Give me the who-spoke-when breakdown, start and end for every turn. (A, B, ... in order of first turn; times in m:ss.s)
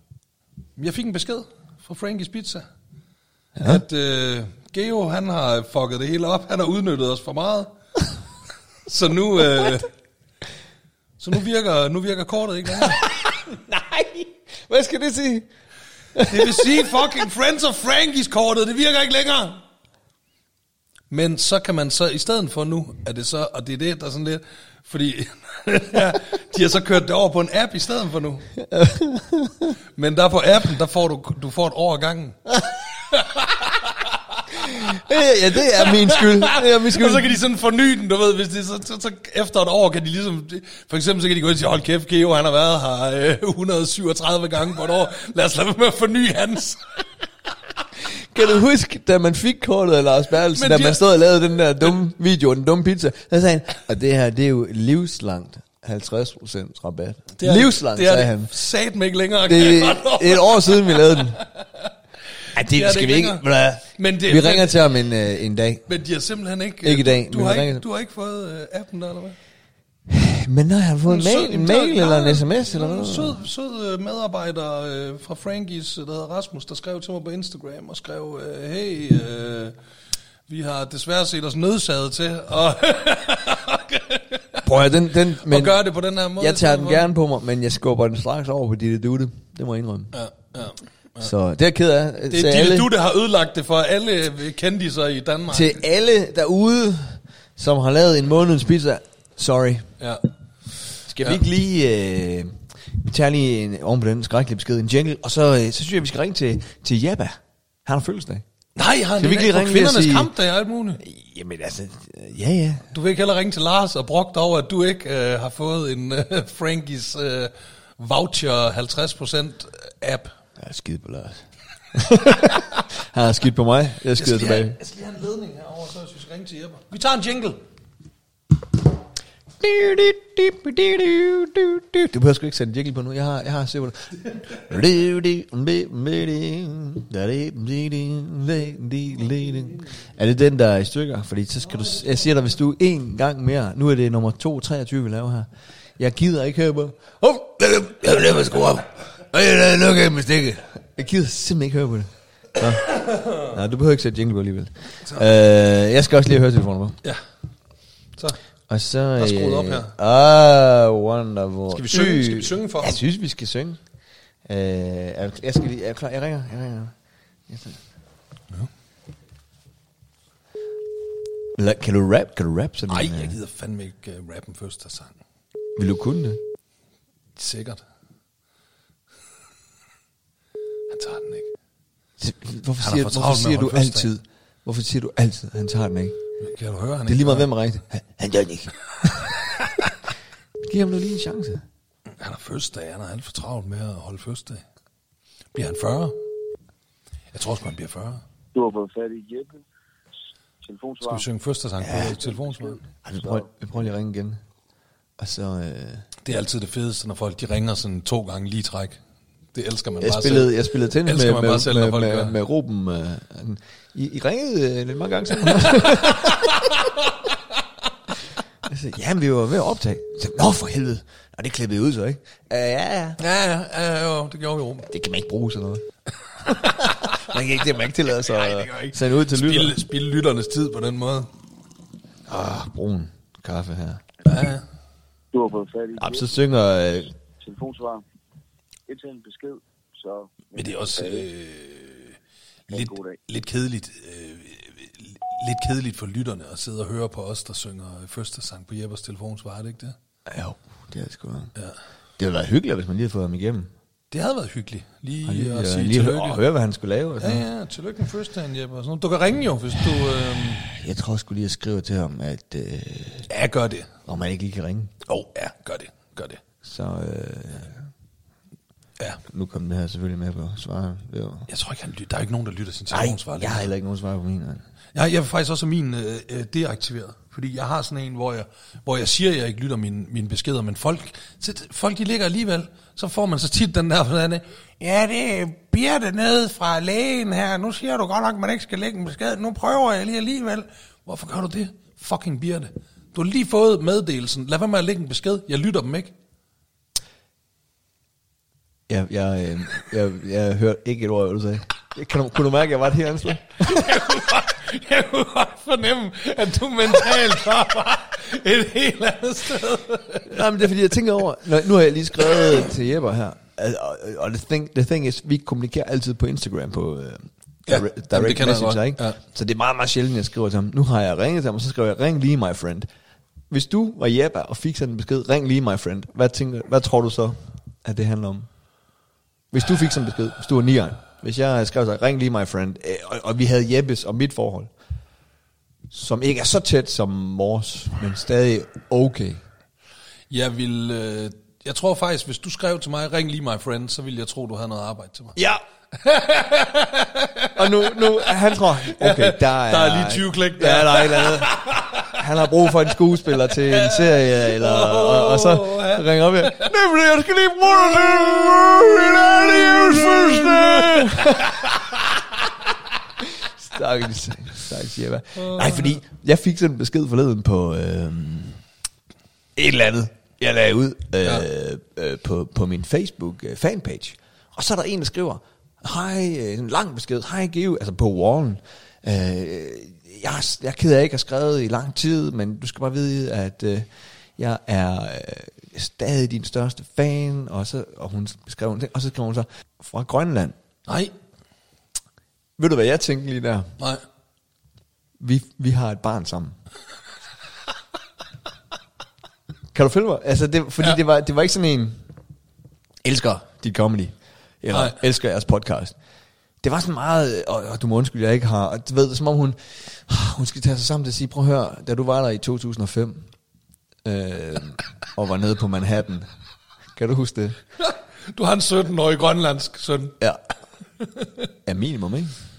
0:00.8-0:02.6 A
0:03.6-0:03.8 B
0:03.6-0:07.7 A
0:08.9-0:09.9 A
0:11.2-0:13.0 A
0:12.8-0:15.5 B
0:16.2-0:17.1 B
0:16.2-0:19.6 A
0:21.1-0:28.5 A
0:28.6-0:29.7 B
0:30.0-0:32.4 A
0:33.1-0:34.1 A
0:34.6-0:37.4 B
0:35.6-0:46.8 A
0:48.3-0:58.5 B
0:50.5-0:51.0 A
0:57.4-1:01.9 A
0:59.5-1:01.4 B
1:02.6-1:04.8 A
1:02.6-1:05.9 B
1:05.9-1:09.4 A
1:06.8-1:07.8 B
1:10.1-1:13.4 B
1:11.1-1:19.8 A
1:20.5-1:24.7 A
1:24.6-1:25.8 B
1:25.4-1:27.1 A
1:26.4-1:30.1 B
1:30.1-1:31.3 A
1:31.2-1:32.9 B
1:32.3-1:35.8 A
1:35.5-1:39.9 B
1:40.0-1:40.3 A
1:41.1-1:48.4 B
1:48.8-1:51.0 A
1:49.2-1:50.3 B
1:51.0-1:52.8 B
1:52.9-2:00.3 A
2:00.6-2:04.8 B
2:04.2-2:07.6 A
2:09.6-2:37.0 B
2:38.7-2:43.8 B
2:39.2-2:40.0 A
2:41.7-2:43.0 A
2:44.5-2:46.9 B
2:47.5-2:47.8 B
2:51.6-2:53.4 B
2:52.9-2:55.2 A
2:55.8-2:56.4 B
2:57.4-2:57.8 A
3:00.9-3:01.5 A
3:02.2-3:06.2 B
3:02.8-3:04.1 A
3:06.4-3:07.5 A
3:07.1-3:09.3 B
3:09.5-3:09.9 A
3:10.6-3:11.6 B
3:12.2-3:14.6 A
3:15.5-3:16.3 A
3:17.3-3:18.2 A
3:18.5-3:19.6 C
3:20.6-3:21.3 C
3:21.0-3:22.8 A
3:21.9-3:22.1 B
3:21.9-3:23.5 C
3:23.1-3:24.4 B
3:25.2-3:26.0 B
3:26.2-3:29.0 A
3:29.5-3:32.4 A
3:30.0-3:36.8 B
3:36.1-3:36.7 A
3:38.6-3:43.2 B
3:43.2-3:44.9 A
3:44.9-3:45.8 B
3:46.4-3:47.3 A
3:46.5-3:49.8 B
3:48.1-3:51.3 A
3:52.3-3:54.0 B
3:54.2-3:54.6 A
3:55.3-3:56.3 C
3:56.0-3:57.1 B
3:57.4-3:58.0 C
3:58.9-4:01.3 C
4:00.6-4:02.2 A
4:02.7-4:03.2 C
4:02.7-4:10.0 A
4:10.3-4:11.5 B
4:12.2-4:13.7 B
4:14.1-4:16.4 A
4:15.2-4:17.4 B
4:17.2-4:20.7 A
4:20.6-4:23.3 B
4:23.3-4:23.9 A
4:24.1-4:24.9 B
4:25.1-4:26.4 A
4:26.6-4:27.8 B
4:29.3-4:31.5 B
4:31.5-4:33.7 A
4:32.9-4:34.6 B
4:35.0-4:56.1 A
4:58.9-5:04.0 B
5:03.6-5:10.5 A
5:10.3-5:22.9 B
5:17.7-5:19.2 A
5:23.5-5:28.5 B
5:29.5-5:34.7 B
5:35.9-5:39.4 B
5:40.3-5:45.4 A
5:45.4-5:45.6 B
5:45.9-5:52.2 A
5:47.6-6:02.3 B
5:53.5-5:56.7 A
5:59.7-6:01.8 A
6:03.2-6:08.6 B
6:05.4-6:06.0 A
6:09.6-6:30.6 B
6:30.9-6:31.1 A
6:32.6-6:33.7 B
6:35.2-6:36.6 B
6:39.7-6:42.0 B
6:43.0-6:46.0 B
6:44.7-6:45.0 A
6:46.6-6:53.3 B
6:54.0-6:56.3 B
6:57.0-6:57.6 B
6:57.8-7:00.2 A
7:01.0-7:01.3 A
7:01.7-7:02.3 B